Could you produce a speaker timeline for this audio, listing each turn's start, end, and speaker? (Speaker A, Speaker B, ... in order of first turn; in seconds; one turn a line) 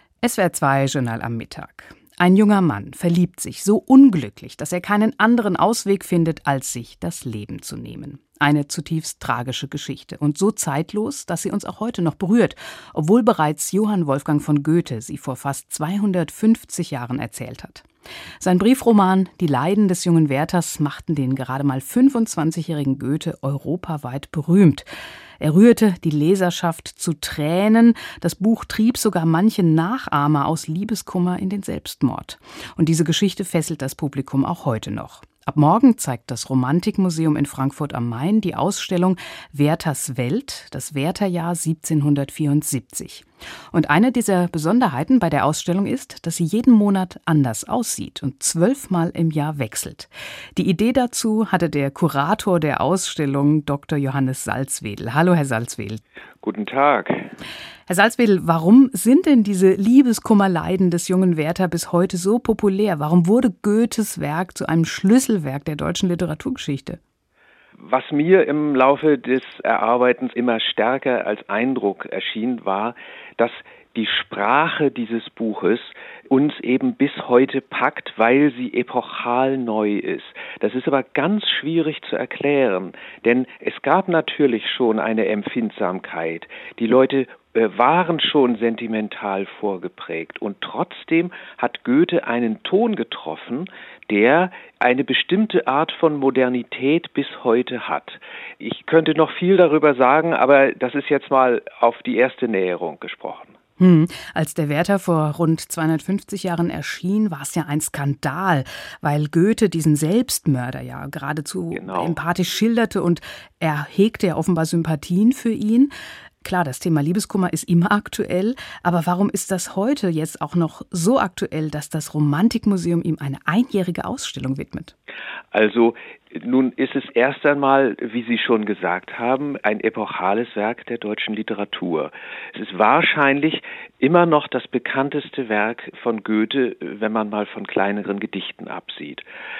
Speaker A: 0.2-17.9
Speaker A: 18.4-24.8
Speaker A: 25.4-56.0
Speaker B: 56.4-57.3
Speaker A: 57.9-67.0
Speaker B: 67.8-103.4
Speaker A: 103.8-115.9
Speaker B: 111.7-112.2
Speaker A: 116.4-124.9
Speaker B: 125.5-139.2